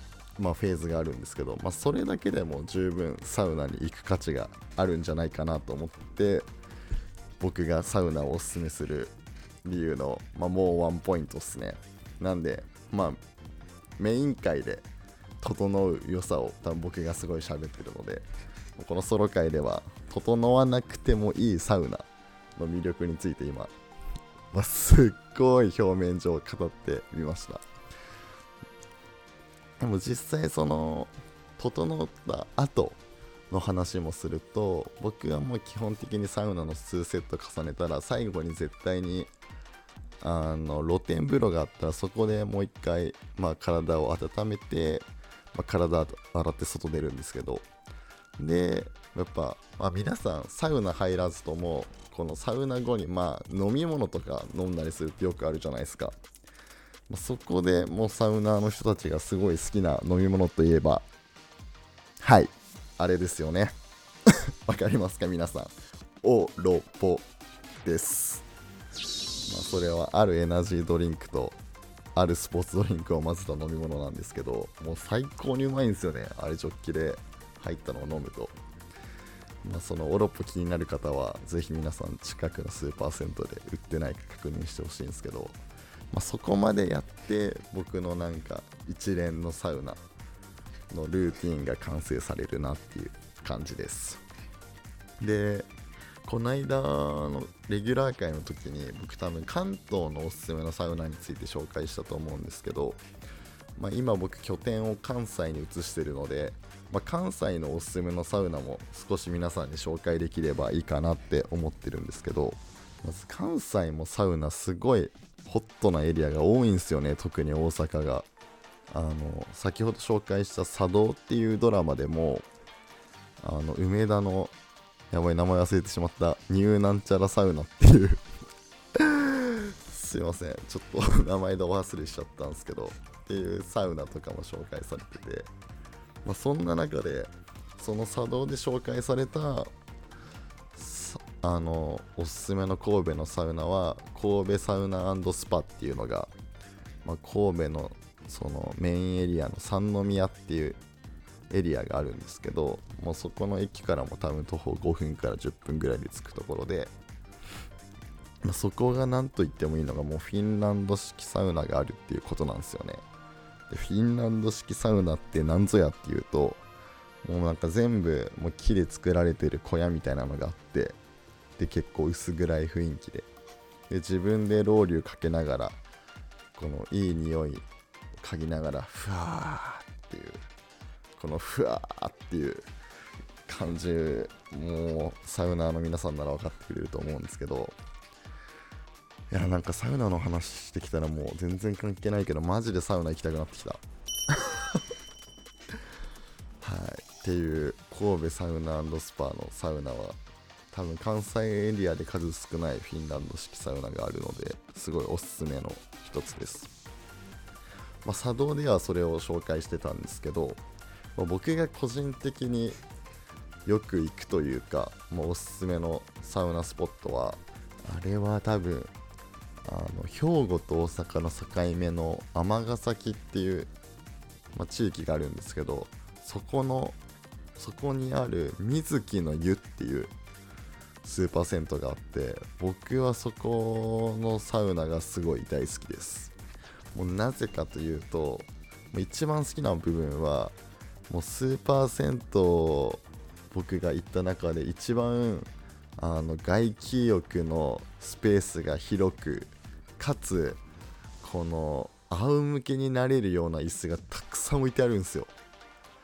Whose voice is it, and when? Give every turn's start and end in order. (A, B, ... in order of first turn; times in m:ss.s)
0:00.4-0:06.5 A
0:07.4-0:13.2 A
0:14.0-0:14.9 A
0:15.4-0:18.2 A
0:18.8-0:22.0 A
0:22.6-0:23.7 A
0:24.5-0:27.6 A
0:29.8-0:39.3 A
0:40.2-0:47.7 A
0:48.4-0:56.2 A
0:57.1-1:01.1 A
1:02.2-1:03.7 A
1:04.3-1:07.2 A
1:07.8-1:08.4 A
1:09.4-1:11.6 A
1:12.1-1:18.6 A
1:19.6-1:25.6 A
1:26.1-1:30.0 A
1:30.9-1:34.2 A
1:35.2-1:35.7 A
1:36.2-1:43.0 A
1:43.8-1:58.3 A
1:58.9-2:02.5 A
2:03.4-2:04.5 A
2:05.1-2:08.2 A
2:08.9-2:15.5 A
2:16.2-2:19.7 A
2:20.7-2:26.3 A
2:27.0-2:30.8 A
2:31.5-2:36.9 A
2:38.4-2:43.0 A
2:43.7-2:46.6 A
2:47.2-2:51.0 A
2:51.6-2:53.3 A
2:53.9-2:55.8 A
2:56.5-2:57.6 A
2:58.2-3:00.4 A
3:01.2-3:02.7 A
3:03.5-3:07.8 A
3:09.3-3:13.8 A
3:14.3-3:14.8 A
3:16.6-3:20.2 A
3:20.7-3:26.7 A
3:28.0-3:30.6 A
3:31.2-3:32.8 A
3:33.6-3:38.9 A
3:39.6-3:43.7 A
3:44.5-3:47.0 A
3:47.6-3:50.1 A
3:51.0-3:56.3 A
3:56.9-4:00.6 A
4:01.1-4:10.6 A
4:11.2-4:15.3 A